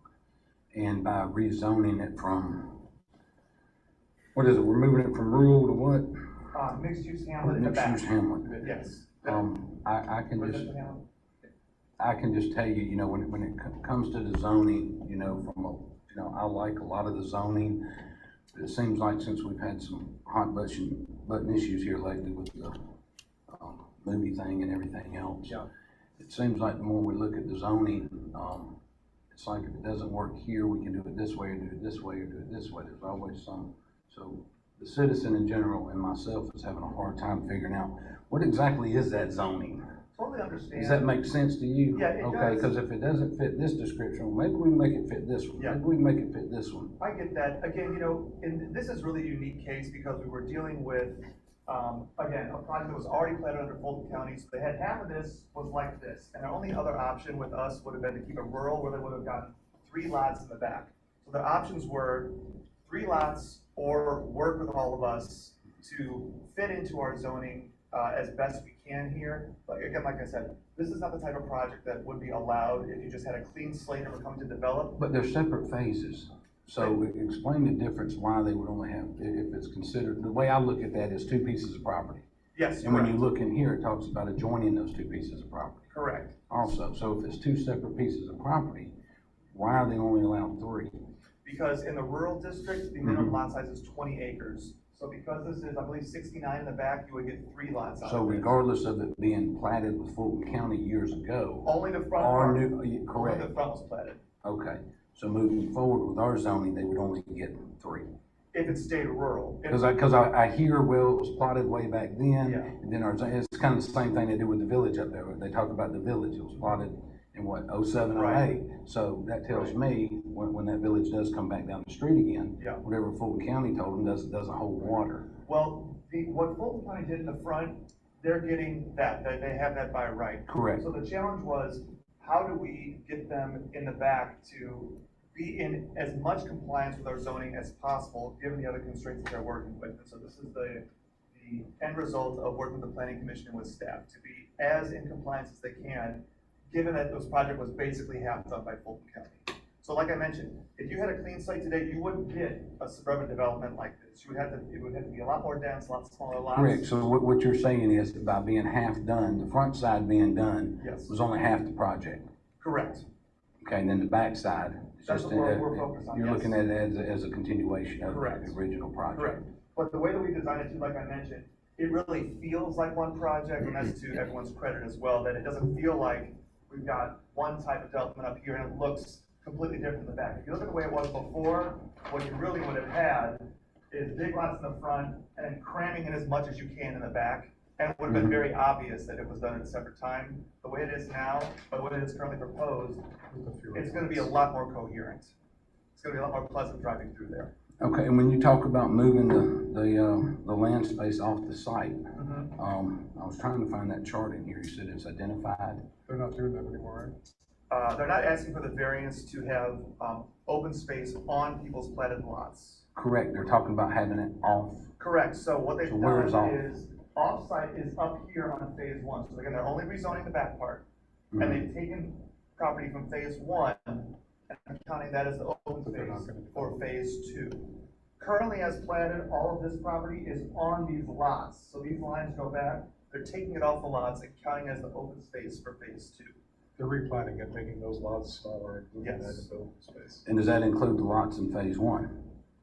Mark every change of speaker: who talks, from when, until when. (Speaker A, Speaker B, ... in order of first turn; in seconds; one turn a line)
Speaker A: 0.7-2.9
Speaker A: 4.3-6.1
Speaker B: 6.5-9.5
Speaker A: 7.4-10.7
Speaker B: 10.4-11.1
Speaker A: 12.0-17.8
Speaker A: 18.5-22.9
Speaker A: 23.5-25.7
Speaker A: 26.2-28.8
Speaker A: 29.3-39.8
Speaker B: 40.1-41.1
Speaker A: 40.8-47.0
Speaker B: 41.9-42.7
Speaker B: 47.0-75.0
Speaker A: 75.0-82.2
Speaker B: 82.5-83.2
Speaker A: 82.8-85.9
Speaker B: 85.9-86.3
Speaker A: 86.5-88.9
Speaker A: 89.5-90.9
Speaker B: 91.4-98.5
Speaker A: 93.0-93.4
Speaker A: 98.0-103.5
Speaker B: 101.6-104.2
Speaker A: 104.4-108.1
Speaker B: 108.5-109.8
Speaker A: 109.7-125.3
Speaker B: 112.4-112.7
Speaker B: 118.1-118.5
Speaker B: 119.5-119.8
Speaker B: 125.4-156.8
Speaker A: 130.5-130.8
Speaker A: 156.5-162.3
Speaker B: 160.8-161.1
Speaker B: 162.6-163.1
Speaker A: 163.6-169.4
Speaker B: 165.1-166.5
Speaker B: 168.0-168.5
Speaker B: 169.1-193.1
Speaker C: 193.3-194.3
Speaker B: 193.7-195.3
Speaker B: 195.9-197.5
Speaker A: 197.8-202.0
Speaker B: 202.2-202.5
Speaker A: 202.5-205.9
Speaker C: 206.1-207.2
Speaker B: 207.7-212.8
Speaker A: 212.9-214.9
Speaker B: 215.0-220.8
Speaker A: 215.8-216.7
Speaker A: 221.3-221.6
Speaker B: 221.4-236.3
Speaker C: 225.8-226.8
Speaker C: 236.8-240.2
Speaker B: 239.0-239.5
Speaker A: 240.2-242.3